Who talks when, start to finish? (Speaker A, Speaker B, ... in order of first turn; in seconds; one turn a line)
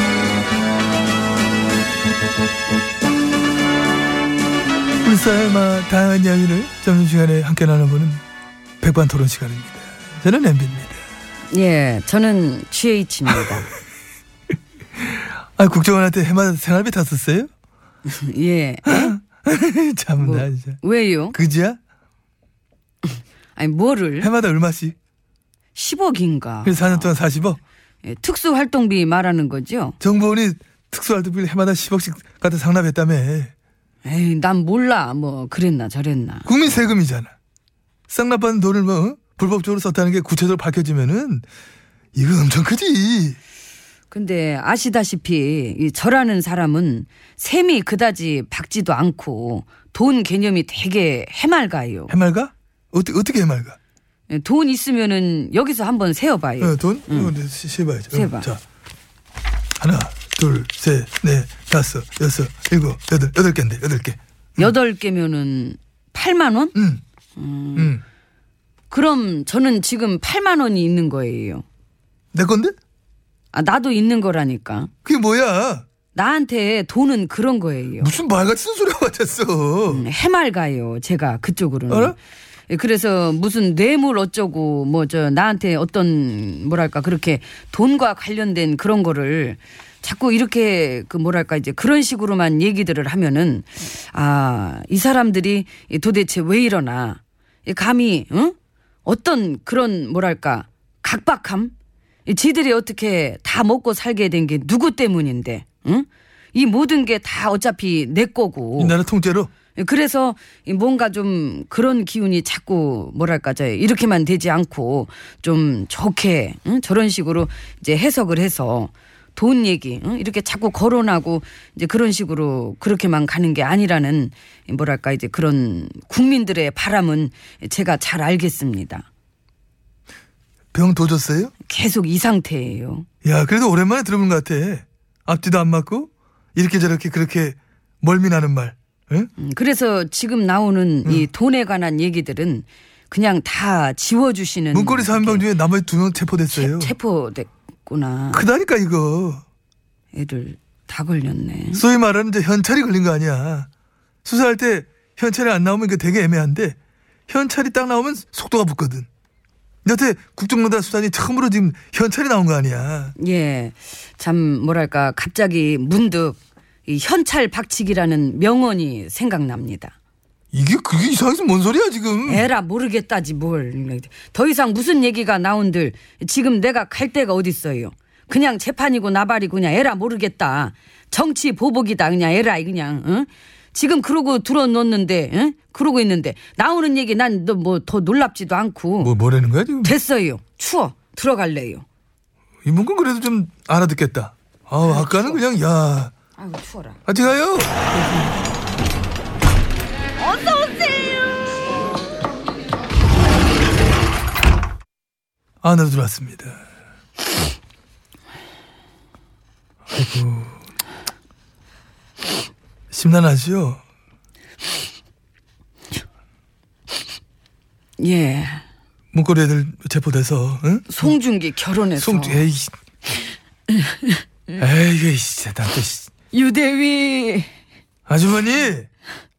Speaker A: 5.0-8.2
Speaker A: 8.8-11.0
Speaker B: 11.5-13.7
Speaker A: 15.6-17.5
Speaker B: 18.0-19.1
Speaker A: 18.8-20.8
Speaker B: 20.2-21.4
Speaker A: 21.3-21.8
Speaker B: 23.0-24.3
Speaker A: 24.2-24.9
Speaker B: 25.7-27.2
Speaker A: 26.6-27.6
Speaker B: 28.0-30.0
Speaker A: 30.0-33.5
Speaker B: 34.0-36.5
Speaker A: 36.5-37.3
Speaker A: 38.1-41.4
Speaker A: 42.1-43.4
Speaker B: 44.1-52.1
Speaker A: 52.1-53.8
Speaker B: 54.3-57.3
Speaker A: 56.6-58.6
Speaker B: 58.1-58.5
Speaker A: 59.8-64.2
Speaker B: 64.6-66.7
Speaker A: 66.7-67.0
Speaker B: 67.3-67.9
Speaker A: 67.8-68.0
Speaker B: 68.9-71.6
Speaker A: 72.3-72.7
Speaker B: 73.5-74.9
Speaker A: 75.0-75.8
Speaker B: 76.1-78.1
Speaker A: 78.0-80.0
Speaker B: 79.9-82.2
Speaker A: 81.9-82.1
Speaker B: 82.7-101.7
Speaker B: 102.2-109.0
Speaker A: 108.8-109.5
Speaker B: 109.7-129.1
Speaker A: 130.7-131.5
Speaker B: 131.7-133.1
Speaker A: 133.2-139.3
Speaker B: 139.4-145.5
Speaker A: 144.7-146.9
Speaker B: 146.5-148.5
Speaker A: 148.3-149.4
Speaker B: 150.1-151.8
Speaker A: 151.7-153.7
Speaker A: 154.2-156.8
Speaker A: 157.3-159.1
Speaker A: 159.8-163.1
Speaker B: 163.2-169.9
Speaker A: 170.5-172.5
Speaker B: 172.2-189.2
Speaker A: 189.0-189.9
Speaker B: 189.8-191.8
Speaker A: 192.6-196.1
Speaker B: 194.8-195.4
Speaker B: 196.4-197.0
Speaker A: 197.1-197.9
Speaker B: 200.2-201.4
Speaker A: 205.6-206.6
Speaker A: 209.9-210.6
Speaker A: 212.9-213.8
Speaker B: 218.0-218.6
Speaker A: 219.1-221.1
Speaker B: 220.9-222.4
Speaker A: 222.0-222.7
Speaker B: 223.7-224.2
Speaker A: 224.6-226.1
Speaker B: 226.3-227.5
Speaker A: 228.1-228.9